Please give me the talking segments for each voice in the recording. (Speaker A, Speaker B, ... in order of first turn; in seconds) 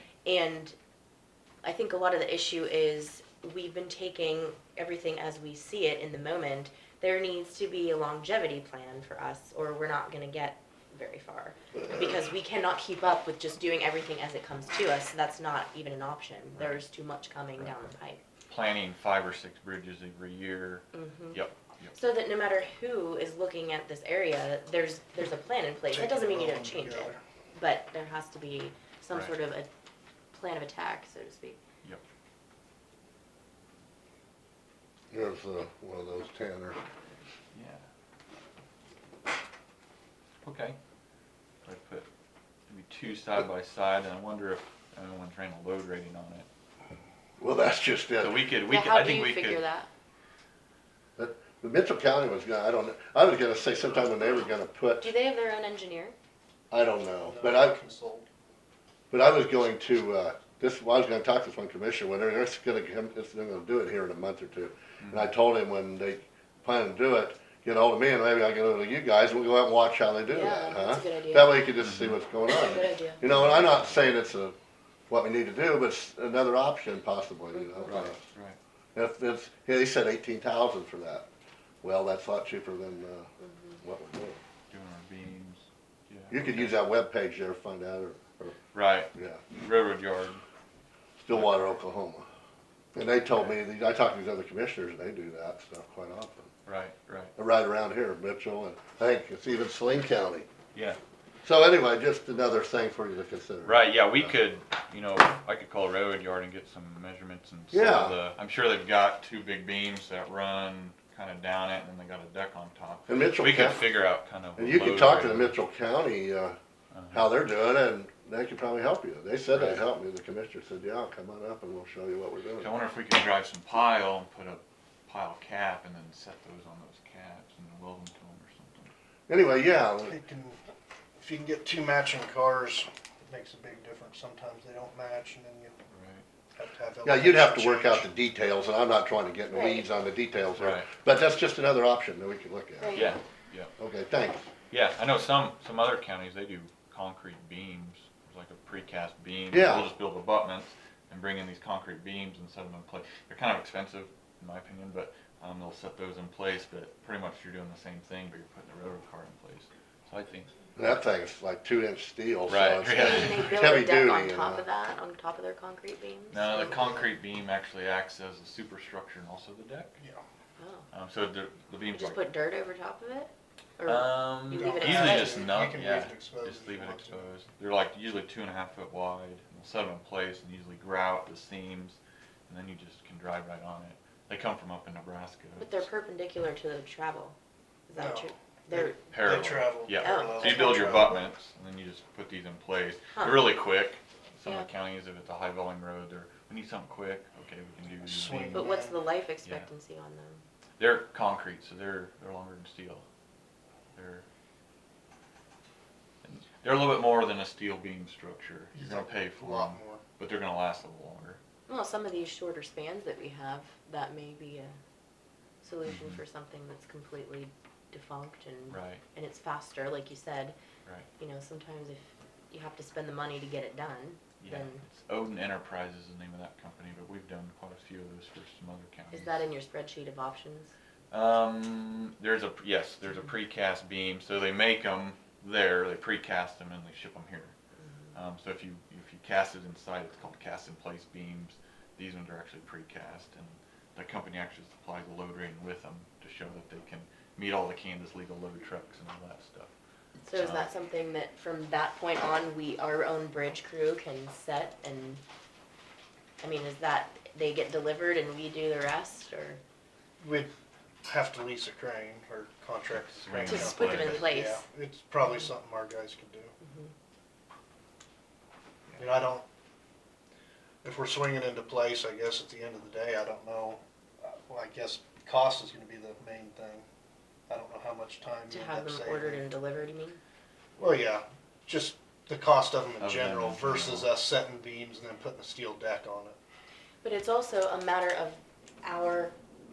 Speaker A: 0.3-0.8, 1.6-18.2, 20.9-21.4, 21.9-29.7, 30.3-31.6, 48.7-49.9, 55.0-56.1, 70.3-71.7, 72.5-73.2, 77.6-77.9, 83.4-83.8, 139.5-139.9, 142.8-143.2, 162.9-167.0, 170.6-170.9, 171.9-175.5, 185.6-187.4, 187.9-189.0, 190.0-191.2, 193.2-193.4, 198.5-200.4, 211.7-214.7, 215.6-220.6, 221.2-224.8, 229.1-230.7, 237.8-238.2, 250.2-255.2, 256.4-259.6, 263.4-264.6, 266.6-266.9, 278.5-280.2, 287.0-289.3
Speaker B: 18.5-21.9, 29.1-29.4, 37.5-37.8, 40.4-40.8, 41.6-42.1, 42.7-46.5, 48.2-49.6, 65.0-65.3, 71.8-72.2, 73.2-74.0, 77.9-78.6, 84.7-86.8, 88.7-90.4, 91.3-91.6, 96.7-97.3, 103.6-115.6, 116.9-117.3, 119.5-119.8, 122.6-128.9, 135.9-136.2, 140.6-140.9, 142.9-143.7, 144.7-160.5, 162.5-163.6, 166.3-170.0, 170.9-172.2, 173.8-185.9, 189.1-198.7, 200.8-203.0, 203.9-204.2, 206.2-211.4, 215.9-216.2, 218.7-219.0, 224.4-229.5, 231.1-237.5, 238.1-249.7, 250.3-250.7, 262.9-264.3, 283.0-284.1
Speaker C: 25.9-27.2, 57.2-58.3, 130.1-130.6, 131.2-135.8, 136.6-138.1, 174.5-177.3, 187.9-191.2, 198.0-199.0, 208.7-210.0, 260.2-260.5, 261.1-266.5, 269.0-269.5, 270.8-276.9, 277.5-279.4, 280.8-286.4
Speaker D: 35.1-36.8, 47.4-48.4, 51.2-55.1, 56.7-57.8, 59.1-74.5, 75.1-78.2, 79.0-81.3, 81.8-84.4, 86.3-88.6, 89.2-89.5, 91.2-92.3, 92.9-96.5, 97.4-100.5, 101.5-103.8, 107.7-108.2, 113.1-113.8, 114.6-116.6, 117.1-122.7, 129.3-130.2, 137.1-143.1, 143.8-144.5, 149.5-149.9, 160.8-164.6